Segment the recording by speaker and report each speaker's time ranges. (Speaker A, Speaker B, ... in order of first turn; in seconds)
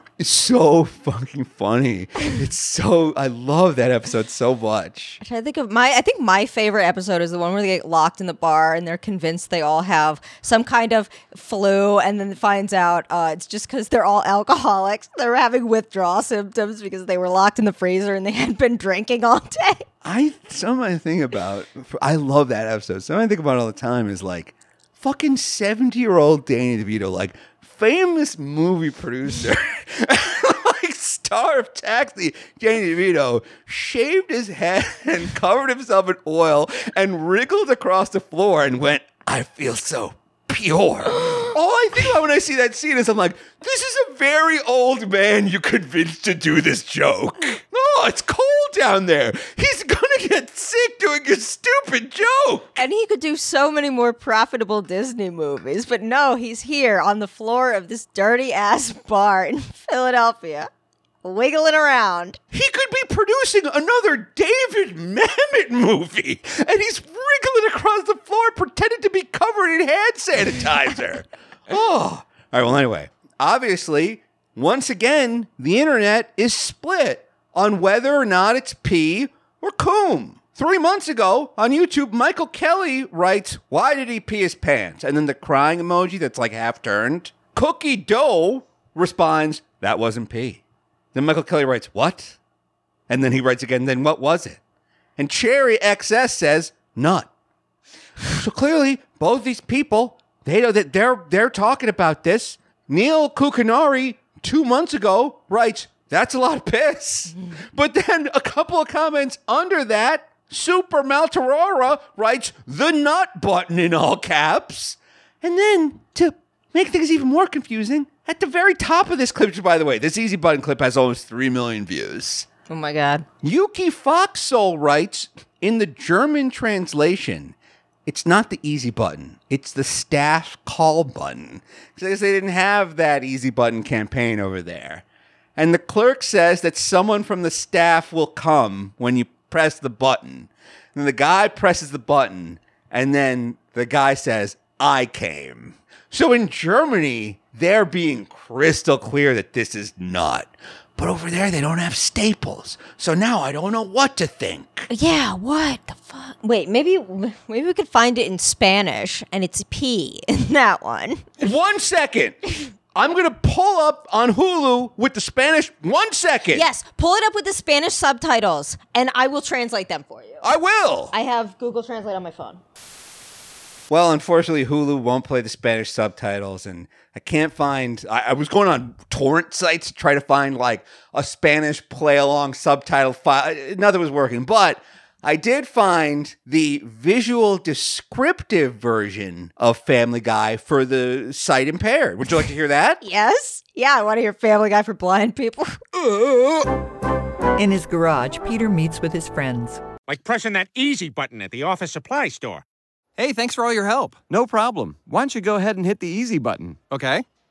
Speaker A: 0.2-5.2, 20.0-52.8, 62.5-90.6, 91.1-92.4, 93.1-94.6, 95.2-97.3, 98.3-122.5, 123.4-127.5, 128.1-135.0, 135.6-154.9, 161.4-162.4, 162.9-166.6, 170.4-171.1, 173.9-193.0
Speaker B: 5.2-19.9, 52.8-60.7, 61.2-62.4, 122.7-123.2, 154.9-161.4, 166.5-170.5, 171.1-172.6, 193.0-195.8
Speaker C: 196.0-196.7, 203.2-207.2
Speaker D: 197.6-199.8
Speaker E: 200.1-202.6